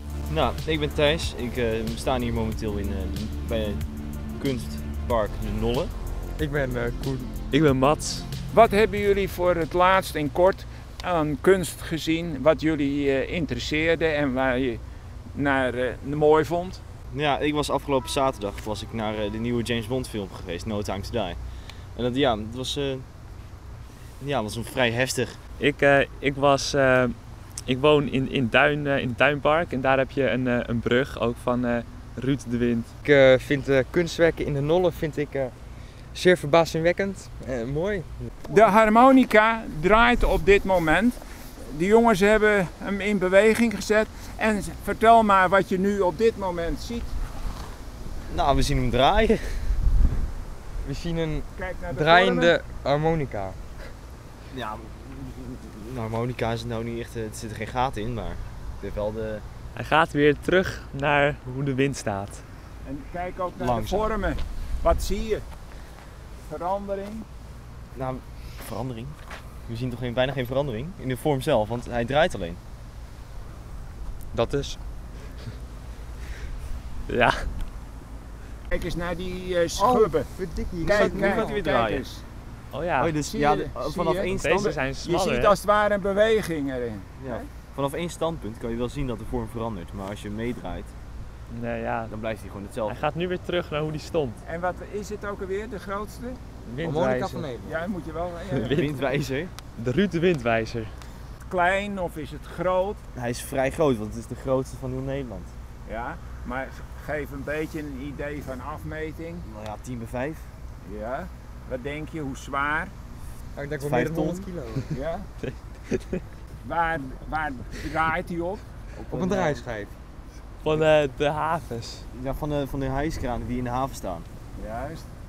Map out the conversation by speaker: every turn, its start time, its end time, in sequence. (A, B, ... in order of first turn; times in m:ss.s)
0:00.3-0:03.8 A
0:04.4-0:05.9 A
0:06.4-0:07.3 B
0:07.5-0:08.3 C
0:08.5-0:14.8 D
0:15.3-0:16.8 D
0:17.1-0:21.4 A
0:21.9-0:23.0 A
0:24.2-0:25.4 A
0:25.6-0:32.9 C
0:33.0-0:35.5 B
0:36.1-0:38.1 B
0:38.5-0:47.1 D
0:48.3-0:49.7 A
0:50.8-0:53.6 B
0:51.5-0:52.5 D
0:54.5-0:59.4 A
0:59.7-1:02.4 C
1:02.8-1:05.4 D
1:03.6-1:04.1 A
1:06.5-1:07.2 D
1:07.9-1:12.6 A
1:14.3-1:14.8 B
1:17.1-1:17.5 C
1:18.7-1:20.3 D
1:19.8-1:21.6 B
1:20.8-1:22.2 D
1:20.8-1:22.0 A
1:22.7-1:23.1 C
1:23.0-1:24.8 A
1:23.2-1:27.5 D
1:24.3-1:25.5 C
1:27.2-1:30.9 A
1:31.5-1:32.1 C
1:32.1-1:33.0 A
1:32.8-1:34.4 C
1:34.4-1:36.4 D
1:36.6-1:37.5 C
1:36.8-1:37.8 B
1:37.6-1:39.2 D
1:38.5-1:39.5 A
1:39.8-1:40.9 C
1:41.4-1:43.0 D
1:43.1-1:45.5 A
1:45.8-1:49.4 D
1:49.4-1:50.5 A
1:50.8-1:52.9 D
1:53.5-1:54.9 B
1:53.8-1:54.5 A
1:54.9-1:55.3 D
1:55.4-1:56.2 C
1:56.6-1:58.6 D
1:59.0-1:59.6 A
1:59.1-1:59.9 B
2:00.6-2:02.0 C
2:02.1-2:04.3 A
2:04.5-2:05.1 D